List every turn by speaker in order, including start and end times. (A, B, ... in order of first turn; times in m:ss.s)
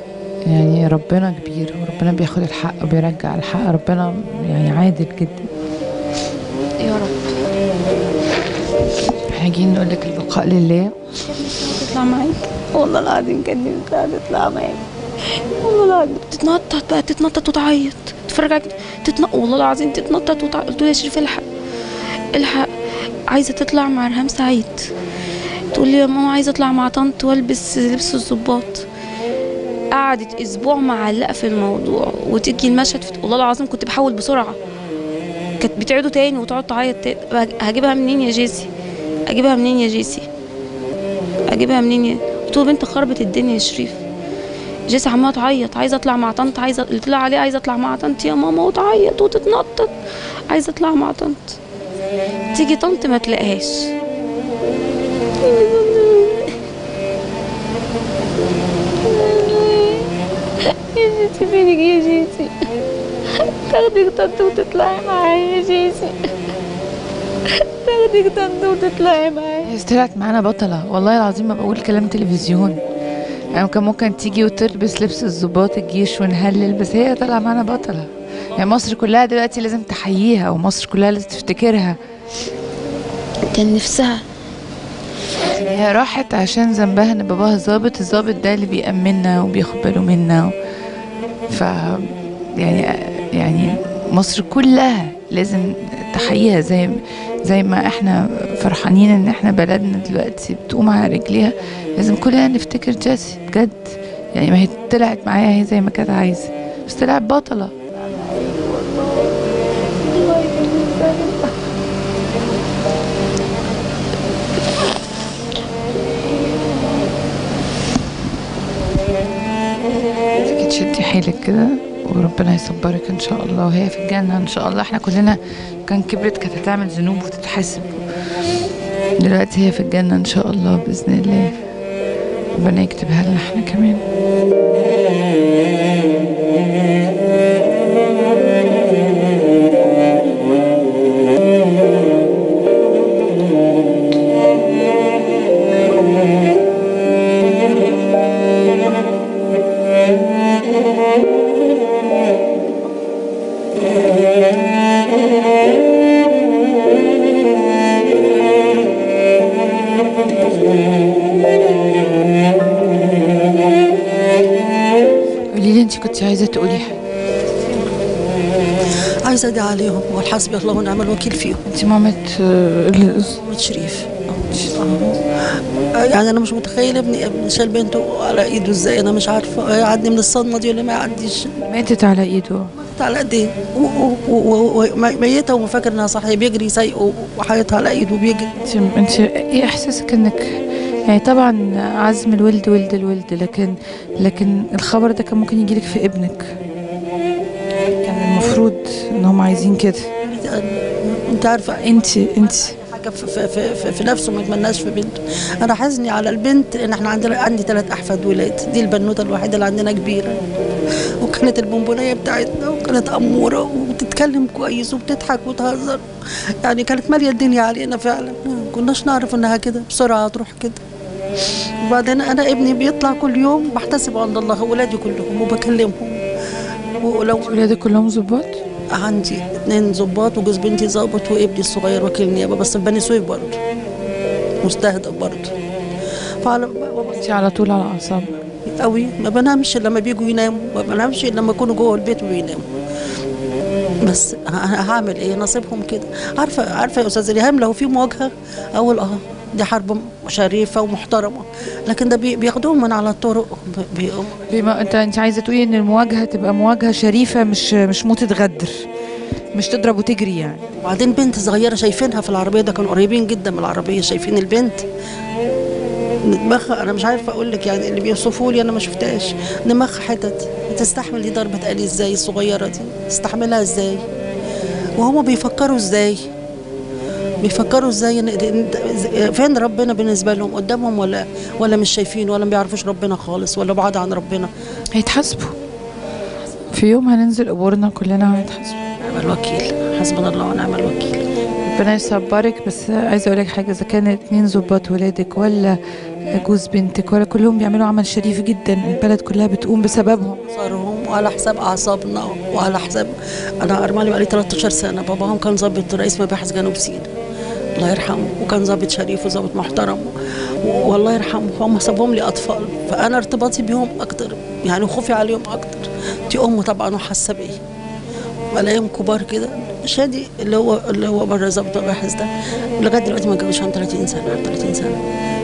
0:00.4-0:05.5 A
0:06.8-0:07.3 B
0:09.3-0:10.9 A
0:11.2-0:21.5 B
0:22.3-0:22.7 B
0:23.3-0:24.9 B
0:25.7-0:28.8 B
0:29.9-0:34.6 B
0:35.6-0:38.7 B
0:39.3-0:40.3 B
0:41.5-0:44.0 B
0:44.9-0:49.9 B
0:50.5-0:51.6 B
0:52.5-0:53.9 B
0:55.4-0:56.6 B
0:59.0-1:00.1 B
1:00.6-1:02.7 B
1:03.3-1:06.3 B
1:07.5-1:09.7 B
1:09.6-1:12.8 A
1:13.5-1:22.0 A
1:23.5-1:24.2 B
1:25.4-1:30.5 A
1:31.5-1:47.7 A
1:47.9-1:49.4 B
1:50.1-1:51.5 B
1:56.3-1:57.0 B
2:00.4-2:08.0 A
2:09.2-2:11.6 A
2:12.6-2:14.0 A
2:45.5-2:47.0 A
2:49.2-2:51.6 C
2:51.7-2:53.4 A
2:53.3-2:55.2 C
2:54.5-2:54.9 A
2:55.9-3:01.6 C
3:01.6-3:02.7 A
3:02.8-3:08.5 C
3:08.6-3:16.6 A
3:18.0-3:20.1 A
3:20.2-3:30.4 C
3:21.8-3:22.8 A
3:31.2-3:36.0 C
3:36.6-3:40.8 C
3:41.8-3:46.2 C
3:47.0-3:47.5 C
3:47.4-3:48.6 A
3:48.9-3:53.6 C
3:54.6-3:55.5 C
3:56.4-3:57.2 C
3:57.2-3:58.4 A
3:58.8-4:02.7 C
4:04.0-4:14.5 C
4:14.5-4:18.8 A
4:19.5-4:20.6 A
4:20.8-4:24.8 C
4:26.2-4:34.0 C
4:35.0-4:36.2 C
4:37.4-4:44.5 C
4:44.9-4:45.6 A
4:46.7-4:48.8 A
4:49.0-4:51.2 C
4:51.6-4:55.8 A
4:56.3-5:00.4 A
5:00.4-5:07.1 C
5:07.8-5:17.6 C
5:18.5-5:25.0 C